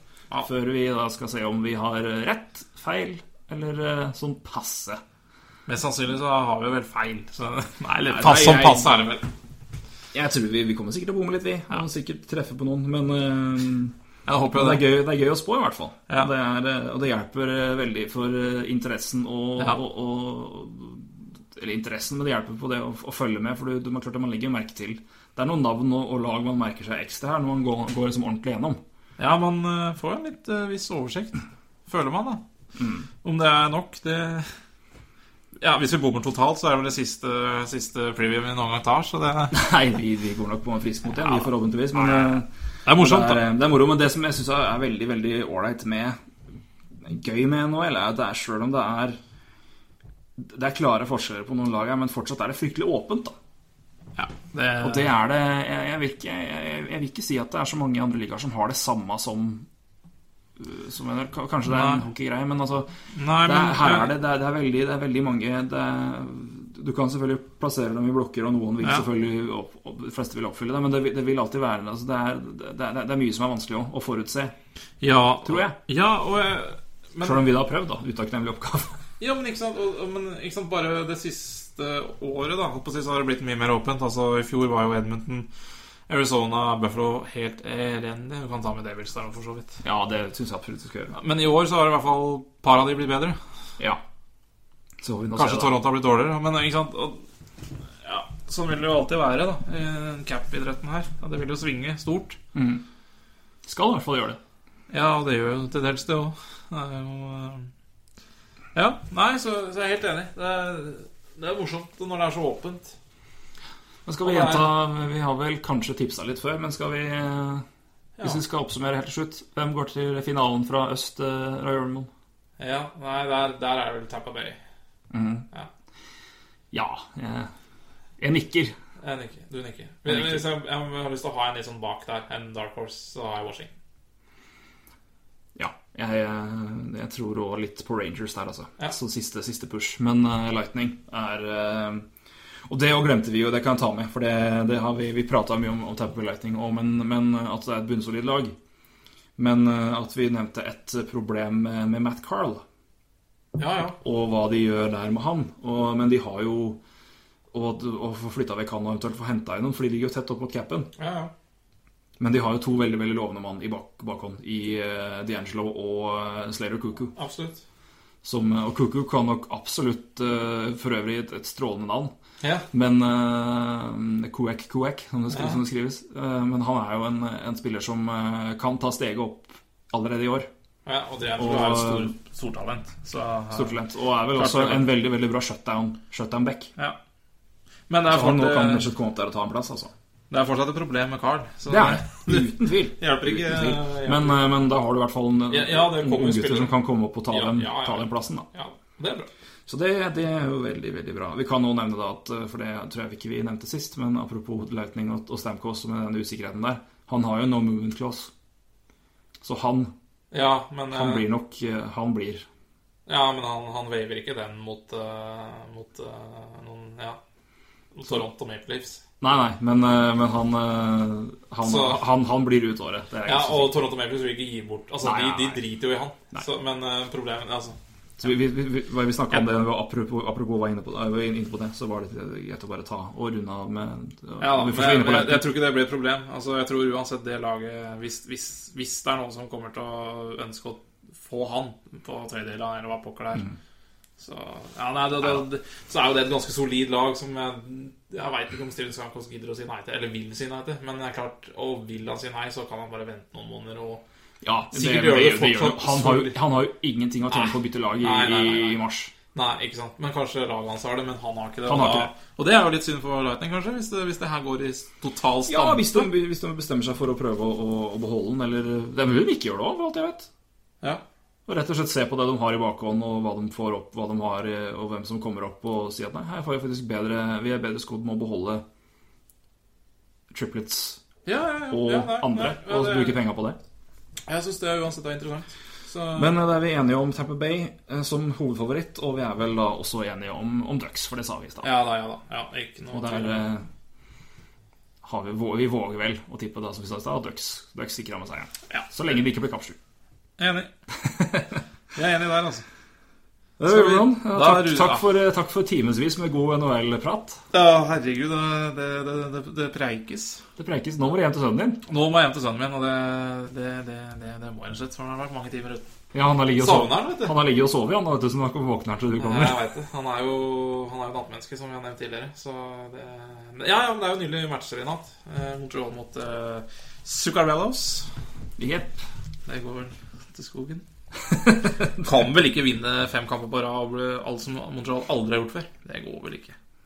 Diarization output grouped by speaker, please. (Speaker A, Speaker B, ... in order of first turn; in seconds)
Speaker A: 0.4-5.0, 8.1-9.0, 10.1-13.9, 14.5-28.8, 32.8-33.1, 39.5-46.2, 47.0-49.2, 50.4-53.4, 54.8-59.7, 60.6-74.5, 75.5-75.8, 77.2-78.9, 89.8-91.2, 95.0-95.8, 102.5-102.8, 103.7-104.4, 114.1-117.7, 118.2-122.1, 125.1-125.5, 126.7-127.5, 128.2-128.7, 130.1-130.5, 135.6-142.1, 142.7-148.5, 149.4-152.6, 154.0-156.8, 157.5-160.9, 162.2-167.1, 168.2-172.1, 172.7-180.5, 181.4-182.2, 183.5-186.7, 188.1-189.9, 191.7-198.5, 199.7-208.3, 209.4-209.9, 210.9-212.5, 219.2-223.8, 225.0-225.6, 228.2-235.5, 254.4-259.1, 261.7-262.1, 265.5-270.3, 271.5-278.6, 280.3-281.0, 281.7-283.6, 286.1-291.7, 292.9-293.6, 295.0-299.8, 301.0-301.6, 303.6-307.4, 310.6-311.8, 316.1-319.6, 328.6-329.0, 331.3-331.9
Speaker B: 5.7-9.3, 14.3-14.9, 29.2-32.4, 33.2-34.5, 35.6-39.6, 41.2-43.4, 54.2-55.1, 61.7-62.0, 63.1-64.1, 75.0-77.4, 79.2-85.5, 86.1-89.8, 91.1-93.4, 95.4-97.2, 98.0-102.4, 104.9-107.7, 108.8-113.0, 114.2-114.7, 122.6-124.6, 129.0-133.7, 153.6-154.0, 161.0-161.3, 167.2-167.6, 172.4-172.7, 175.3-175.6, 180.8-183.8, 184.3-184.9, 187.9-188.8, 190.3-194.5, 195.5-196.8, 197.3-199.3, 210.3-211.2, 213.1-217.2, 217.9-219.0, 221.6-222.0, 223.3-227.8, 234.4-243.5, 244.2-254.0, 254.7-256.4, 257.3-258.8, 259.3-266.1, 281.2-283.2, 284.3-286.3, 291.6-293.4, 300.4-300.7, 301.9-302.6, 303.6-305.1, 307.5-310.4, 311.9-315.9, 316.6-317.3, 319.2-328.1, 329.5-330.9, 332.0-336.6